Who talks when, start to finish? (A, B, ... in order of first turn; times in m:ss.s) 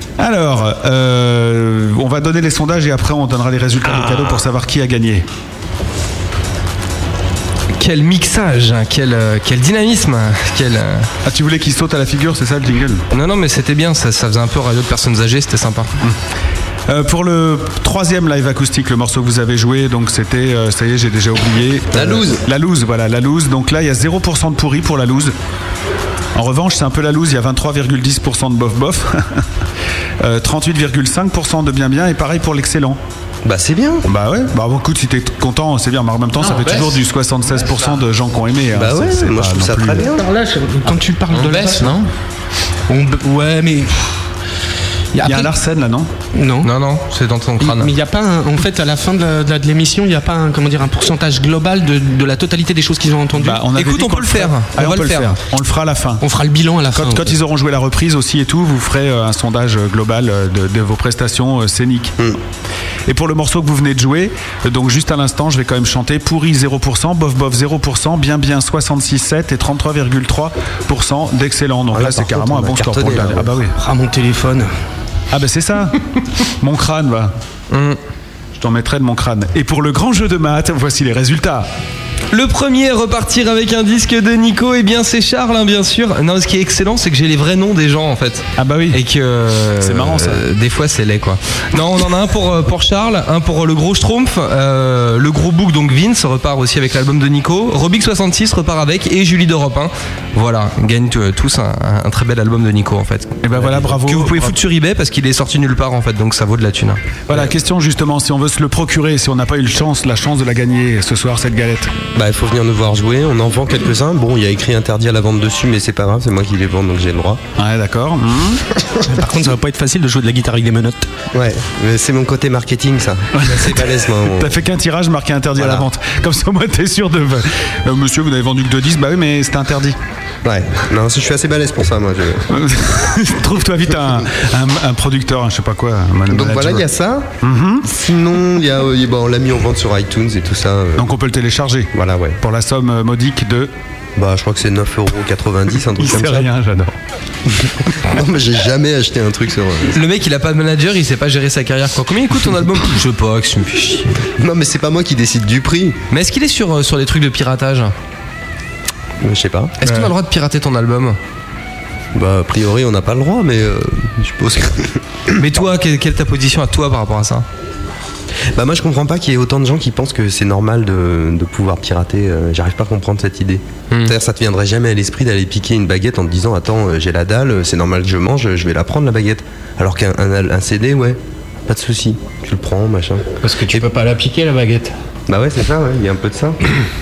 0:00.2-0:05.3 A
0:07.8-0:11.1 B
0:11.2-0:13.0 A
0:13.1-0:15.9 B
0:16.9-0:25.4 A
0:21.9-0:22.4 C
0:26.4-0:29.5 A
0:30.2-0:33.0 A
0:33.4-0:34.1 C
0:34.0-0:40.1 A
0:36.5-0:37.0 D
0:38.7-0:40.3 C
0:40.2-0:42.0 E
0:41.3-0:42.1 D
0:42.9-0:44.2 E
0:45.1-0:45.5 E
0:45.2-0:46.1 A
0:46.4-0:46.7 E
0:46.6-0:47.9 B
0:47.6-0:53.6 E
0:53.4-0:56.2 A
0:53.8-0:55.4 B
0:56.2-0:57.4 E
0:57.0-1:02.2 A
1:03.1-1:13.8 A
1:11.9-1:13.5 C
1:13.8-1:14.7 E
1:15.3-1:16.0 A
1:16.6-1:17.3 A
1:17.7-1:18.0 B
1:18.6-1:21.7 A
1:22.3-1:47.0 B
1:28.6-1:29.0 A
1:29.8-1:30.4 A
1:43.4-1:44.6 A
1:47.3-1:51.9 A
1:52.2-1:57.4 C
1:57.6-1:58.7 A
1:59.0-2:01.1 E
2:01.3-2:04.6 C
2:03.4-2:10.0 A
2:05.6-2:05.9 C
2:10.4-2:12.5 C
2:12.5-2:16.8 A
2:16.3-2:17.3 C
2:17.4-2:17.9 A
2:17.8-2:21.1 C
2:21.0-2:23.7 A
2:21.9-2:22.4 C
2:24.2-2:26.5 C
2:26.0-2:27.0 A
2:27.7-2:30.0 C
2:29.9-2:34.2 B
2:34.4-2:36.0 C
2:36.1-2:37.9 B
2:39.2-2:39.8 C
2:39.8-2:41.2 B
2:42.1-2:45.0 C
2:45.4-2:47.5 B
2:48.5-3:03.9 C
3:03.4-3:05.0 D
3:05.3-3:06.6 C